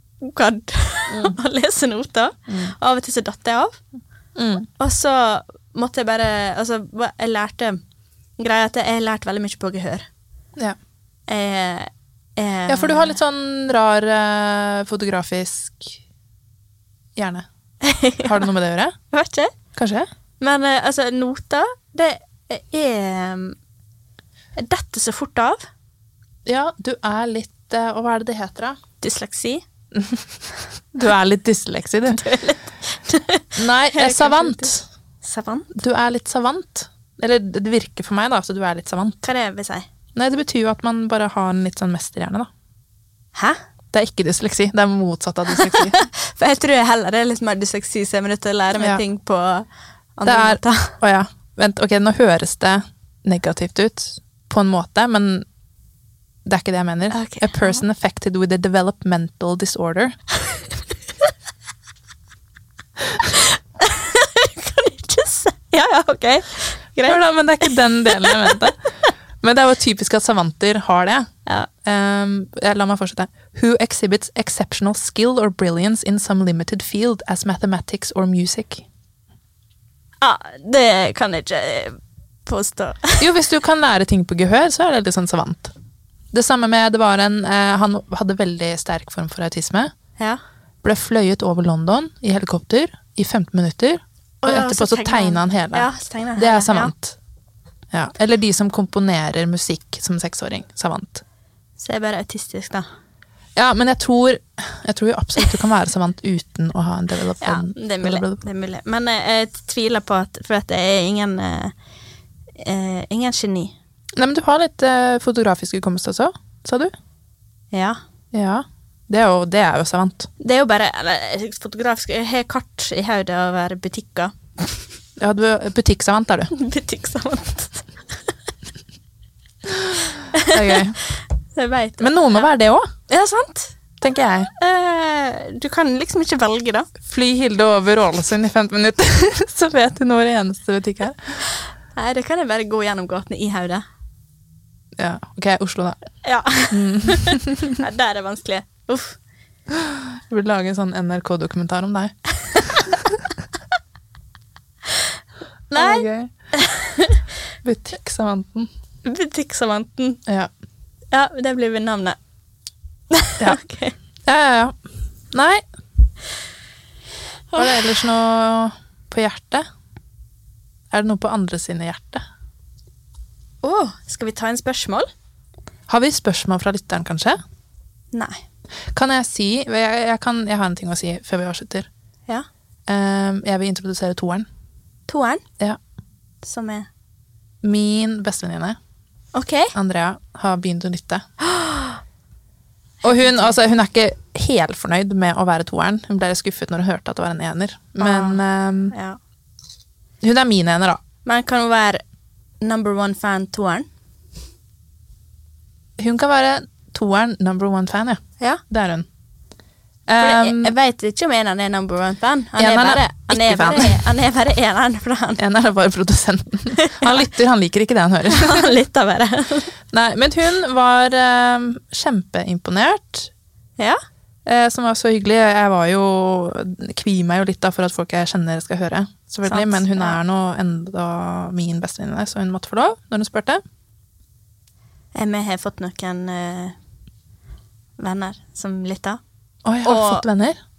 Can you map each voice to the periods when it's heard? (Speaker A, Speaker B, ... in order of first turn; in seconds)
Speaker A: 0.2-3.8, 4.8-7.8, 8.4-10.1, 11.3-13.2, 17.8-18.5, 19.1-19.5, 20.4-23.6, 24.6-25.6, 29.0-29.6, 32.1-35.7, 39.2-39.9, 45.5-51.0, 57.1-57.8, 63.2-68.6, 80.2-83.3, 94.4-96.9, 101.8-102.8, 107.4-111.7, 112.6-113.8, 117.7-118.0, 120.4-124.8, 126.5-127.9, 130.3-132.4, 133.1-133.8, 134.6-136.9, 141.9-143.8, 146.2-149.2, 152.5-152.8, 155.7-157.2, 159.0-160.2, 161.1-162.2, 163.1-163.9, 167.5-168.0, 173.6-175.1, 178.1-178.4, 185.1-185.4, 186.4-186.9, 189.3-189.7, 191.4-192.0, 193.0-193.5, 198.0-198.4, 198.9-199.2, 201.2-202.0, 202.6-203.9, 210.2-215.4, 216.7-217.2, 218.3-219.7, 229.4-230.2, 235.1-236.8, 238.0-239.2, 239.8-240.2
Speaker B: 1.1-1.4, 2.5-2.7, 4.3-4.7, 12.7-16.0, 17.1-17.5, 18.2-18.9, 19.8-20.1, 26.4-28.8, 29.9-30.2, 30.9-32.2, 33.5-34.9, 35.7-39.2, 40.1-42.5, 43.9-46.0, 50.2-55.5, 56.4-60.2, 67.0-68.9, 69.4-71.3, 71.8-78.8, 83.2-85.7, 86.3-89.9, 90.8-97.2, 97.9-101.2, 103.5-108.4, 114.2-116.9, 118.3-120.3, 125.2-126.5, 129.8-131.0, 132.0-132.9, 134.0-134.5, 137.0-141.4, 145.0-146.0, 146.7-147.8, 149.7-153.2, 155.7-156.3, 157.6-158.7, 160.2-160.5, 164.2-164.8, 165.3-165.6, 167.5-169.7, 170.9-172.2, 175.9-177.4, 178.9-181.9, 182.9-184.5, 187.6-188.8, 189.7-191.2, 193.0-198.9, 200.2-201.0, 206.0-209.1, 210.1-210.7, 212.6-214.0, 215.4-218.7, 219.9-223.3, 224.4-233.6, 239.6-240.6